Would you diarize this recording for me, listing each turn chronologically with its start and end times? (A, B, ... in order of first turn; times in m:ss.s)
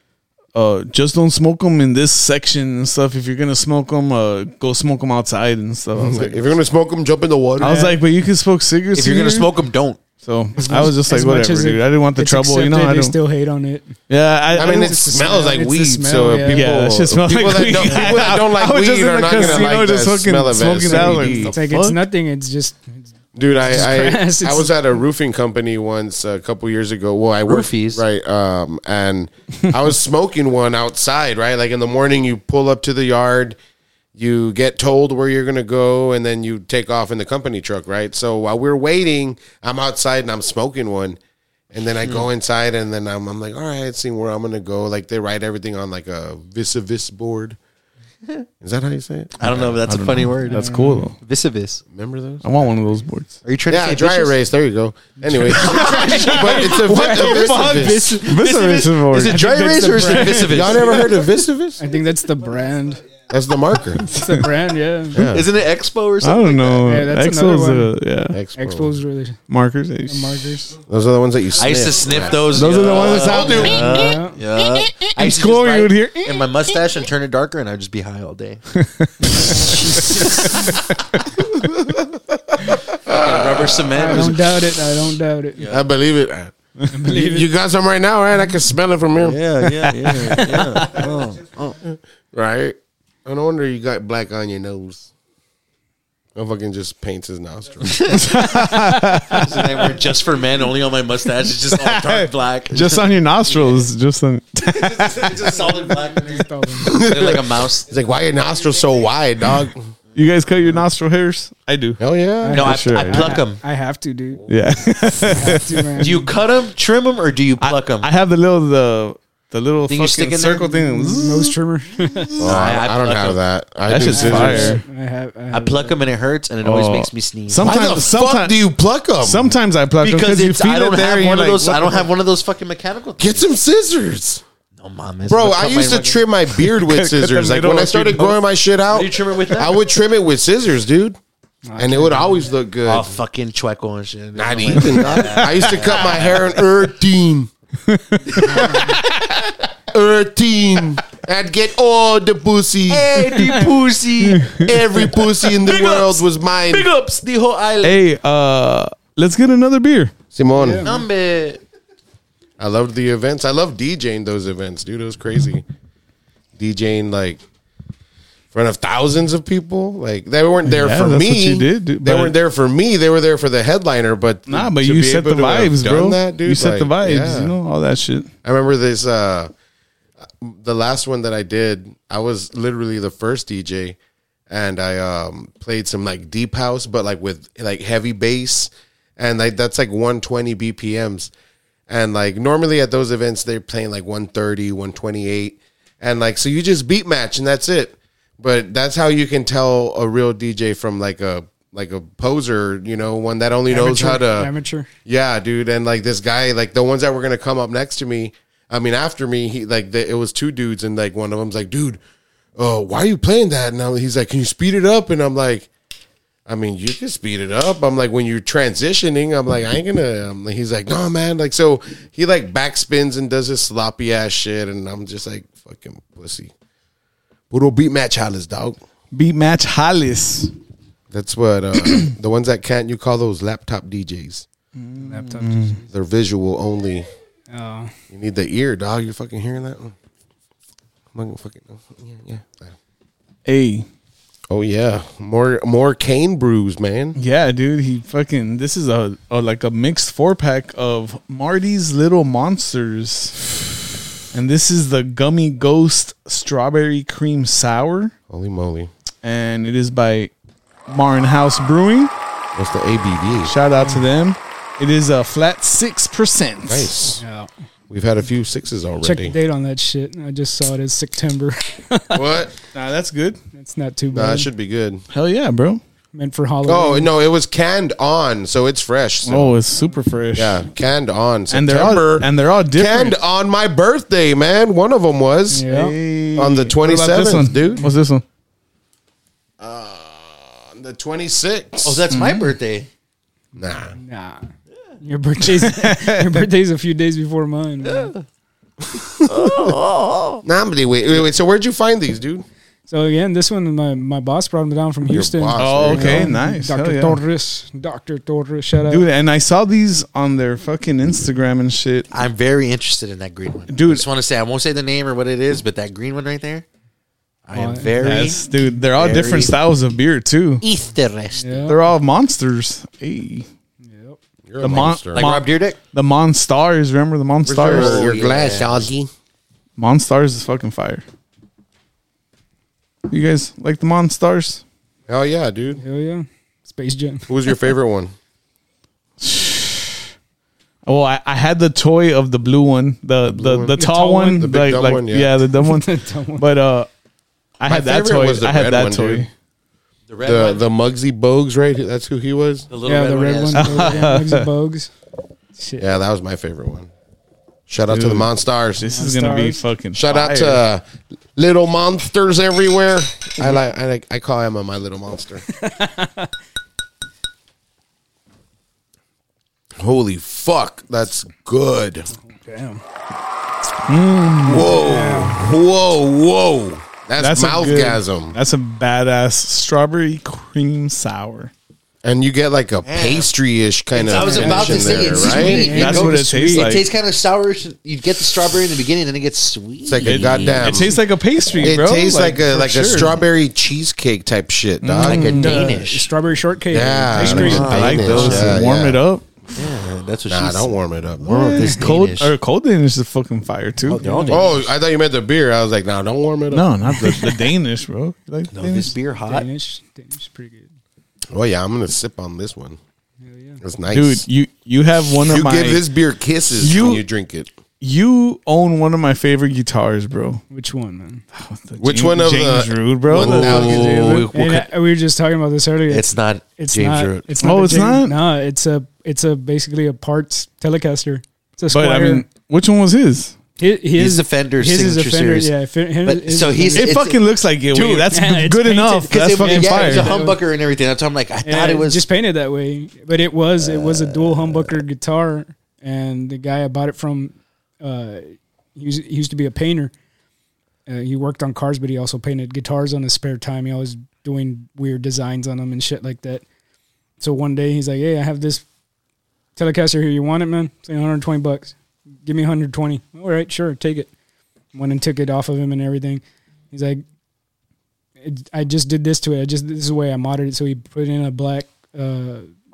0:00.5-0:06.4 A
0:06.0-0:07.8 B
0:07.6-0:08.0 C
0:07.6-0:09.5 A
0:08.9-0:10.0 D
0:10.2-0:13.2 A
0:10.6-0:13.9 C
0:14.1-0:15.0 A
0:14.5-0:16.6 C
0:14.6-0:21.6 B
0:16.4-0:22.0 A
0:19.3-0:19.6 C
0:20.8-0:23.0 C
0:23.3-0:33.6 B
0:23.6-0:24.7 C
0:27.4-0:28.0 D
0:34.1-0:41.2 B
0:41.7-0:47.6 B
0:48.6-0:49.8 B
0:49.4-0:51.8 D
0:49.4-0:51.2 A
0:50.5-0:51.0 C
0:51.9-0:52.6 B
0:52.4-0:53.4 A
0:53.4-0:54.3 D
0:53.7-0:58.1 B
0:55.4-0:58.4 C
0:55.5-0:59.4 A
0:58.2-1:01.1 D
0:59.2-1:01.1 C
1:00.4-1:01.8 B
1:01.8-1:03.0 C
1:03.3-1:04.0 B
1:04.0-1:05.2 C
1:04.2-1:04.5 A
1:05.1-1:05.5 B
1:05.3-1:06.8 D
1:06.2-1:08.4 A
1:06.8-1:07.9 C
1:08.3-1:09.0 B
1:08.6-1:09.4 C
1:09.5-1:10.4 A
1:10.1-1:10.7 C
1:10.9-1:13.8 B
1:11.6-1:18.6 D
1:12.5-1:14.2 A
1:13.5-1:14.4 C
1:14.8-1:16.5 A
1:18.8-1:21.2 A
1:19.5-1:20.8 C
1:20.0-1:20.4 D
1:22.5-1:23.9 B
1:23.0-1:24.8 D
1:23.9-1:25.6 C
1:25.6-1:25.8 D
1:25.7-1:29.4 B
1:26.9-1:27.5 C
1:29.2-1:31.8 D
1:29.6-1:30.8 A
1:31.8-1:35.1 B
1:36.4-1:38.3 B
1:37.8-1:38.4 D
1:38.1-1:39.9 A
1:39.3-1:43.9 D
1:41.5-1:45.6 A
1:44.6-1:47.8 D
1:45.6-1:46.9 C
1:46.8-1:49.9 B
1:50.1-1:52.0 A
1:52.0-1:52.6 B
1:52.4-1:54.5 C
1:52.5-1:53.6 D
1:52.6-1:53.4 A
1:54.5-1:56.1 A
1:55.2-1:56.3 C
1:56.0-1:58.1 D
1:57.6-2:01.6 A
1:59.9-2:00.8 D
2:00.8-2:02.4 C
2:02.4-2:03.4 D
2:02.4-2:04.8 B
2:03.9-2:04.8 A
2:04.1-2:06.0 C
2:05.5-2:07.9 D
2:06.6-2:08.6 A
2:07.6-2:09.5 B
2:09.2-2:12.1 A
2:10.0-2:13.5 D
2:13.2-2:14.4 B
2:14.8-2:16.2 D
2:15.3-2:21.2 B
2:16.5-2:18.4 A
2:18.9-2:19.8 D
2:21.7-2:22.5 C
2:21.8-2:23.1 B
2:22.8-2:26.6 D
2:24.3-2:27.5 B
2:27.8-2:29.0 A
2:28.3-2:29.5 D
2:28.4-2:28.9 C
2:29.9-2:33.1 B
2:32.9-2:38.0 D
2:33.4-2:33.6 C
2:34.2-2:34.7 A
2:34.6-2:36.9 B
2:37.8-2:40.1 A
2:40.3-2:40.9 B
2:40.5-2:41.0 C
2:40.8-2:41.6 D
2:42.6-2:45.6 B
2:46.6-2:47.4 B
2:48.5-2:57.5 B
2:50.6-2:52.3 A
2:54.5-2:58.3 A
2:58.4-2:59.5 B
3:00.4-3:04.0 B
3:04.5-3:11.3 B
3:11.9-3:24.5 B
3:23.7-3:24.9 C
3:25.0-3:32.0 B
3:32.6-3:35.7 B
3:36.4-3:46.5 B
3:47.5-3:48.8 B
3:49.1-3:50.5 A
3:51.1-3:54.4 B
3:51.8-3:52.1 A
3:54.8-3:55.8 A
3:55.0-3:55.9 C
3:55.9-3:57.1 B
3:57.5-3:57.9 C
3:58.1-3:59.9 B
4:01.1-4:02.7 B
4:03.4-4:03.9 A
4:04.5-4:07.2 B
4:07.2-4:13.5 A
4:14.3-4:18.1 A
4:18.3-4:18.9 B
4:19.2-4:20.3 A
4:20.9-4:22.1 A
4:22.6-4:23.5 B
4:23.4-4:26.9 A
4:23.8-4:24.0 C
4:26.6-4:27.2 B
4:27.2-4:27.5 C
4:27.9-4:29.3 B
4:29.0-4:32.2 C
4:32.1-4:32.5 B
4:32.7-4:33.4 A
4:33.5-4:34.5 C
4:34.1-4:35.0 B
4:35.1-4:35.8 A
4:36.1-4:37.1 C
4:36.6-4:39.6 B
4:39.2-4:40.6 A
4:40.3-4:45.6 B
4:41.5-4:43.2 A
4:45.5-4:46.0 C
4:45.7-4:48.2 A
4:46.4-4:47.8 B
4:49.6-4:52.0 B
4:51.8-4:52.9 D
4:52.1-4:52.5 A
4:53.6-4:53.9 B
4:54.0-4:54.5 C
4:55.0-4:58.1 C
4:55.5-4:56.4 A
4:57.8-4:58.2 D
4:58.9-4:59.5 B
4:59.3-5:00.4 D
5:00.4-5:02.4 B
5:02.9-5:09.0 C
5:05.0-5:06.3 B
5:05.6-5:07.2 A
5:08.9-5:12.1 A
5:12.1-5:16.6 D
5:13.7-5:14.0 A
5:17.5-5:18.4 D
5:17.5-5:18.3 C
5:18.0-5:20.6 A
5:18.9-5:19.6 D
5:20.6-5:21.7 D
5:21.4-5:21.8 C
5:21.7-5:23.5 A
5:23.8-5:24.2 C
5:24.4-5:25.3 B
5:24.6-5:28.1 A
5:25.1-5:25.8 D
5:27.4-5:29.1 B
5:27.6-5:28.9 D
5:29.8-5:31.0 A
5:33.1-5:34.6 A
5:35.1-5:35.8 B
5:35.8-5:37.3 C
5:37.3-5:38.1 B
5:39.2-5:40.1 A
5:40.8-5:46.9 A
5:43.3-5:43.8 B
5:43.7-5:44.4 C
5:44.4-5:45.3 B
5:45.6-5:46.4 C
5:47.6-5:49.3 A
5:47.7-5:49.2 B
5:50.1-5:50.6 D
5:50.2-5:52.7 B
5:52.7-5:54.1 D
5:52.8-5:54.9 C
5:53.5-5:54.5 A
5:55.6-5:55.8 C
5:55.8-5:56.9 B
5:57.7-5:58.8 B
5:57.9-6:00.6 A
5:58.8-5:59.6 C
5:59.9-6:00.8 B
6:01.4-6:05.4 B
6:05.5-6:06.3 C
6:09.8-6:12.1 B
6:12.2-6:12.8 C
6:13.8-6:14.7 A
6:14.4-6:18.4 B
6:14.7-6:15.4 C
6:17.2-6:21.5 A
6:22.0-6:25.8 B
6:22.8-6:23.3 D
6:23.9-6:30.9 D
6:24.1-6:26.8 C
6:25.3-6:26.8 A
6:29.8-6:31.0 B
6:30.0-6:33.2 A
6:31.6-6:35.3 B
6:34.8-6:35.8 A
6:35.0-6:36.1 D
6:35.2-6:38.4 C
6:36.7-6:39.0 B
6:37.1-6:39.2 A
6:37.2-6:38.6 D
6:39.5-6:40.7 D
6:40.3-6:41.8 B
6:41.2-6:44.0 A
6:41.5-6:42.3 D
6:43.8-6:44.7 D
6:44.0-6:44.6 C
6:44.3-6:46.7 B
6:46.5-6:48.9 A
6:48.5-6:49.5 D
6:49.2-6:50.7 C
6:51.3-6:52.8 B
6:53.2-6:53.6 C
6:53.6-6:54.2 B
6:53.9-6:55.8 A
6:55.2-6:57.5 B
6:56.6-6:57.0 A
6:57.8-7:00.4 A
7:00.5-7:01.2 C
7:01.3-7:03.9 A
7:01.8-7:04.2 B
7:03.1-7:04.7 D
7:03.3-7:12.2 C
7:05.9-7:07.2 D
7:07.4-7:08.2 A
7:11.7-7:13.3 A
7:13.6-7:16.9 C
7:14.0-7:15.5 D
7:16.0-7:17.2 D
7:16.8-7:20.2 A
7:17.7-7:18.1 D
7:18.1-7:20.4 C
7:19.1-7:22.0 D
7:21.4-7:29.9 C
7:23.6-7:24.7 D
7:30.9-7:36.4 C
7:37.2-7:38.6 C
7:39.6-7:44.1 C
7:44.7-7:47.0 C
7:48.2-7:52.5 C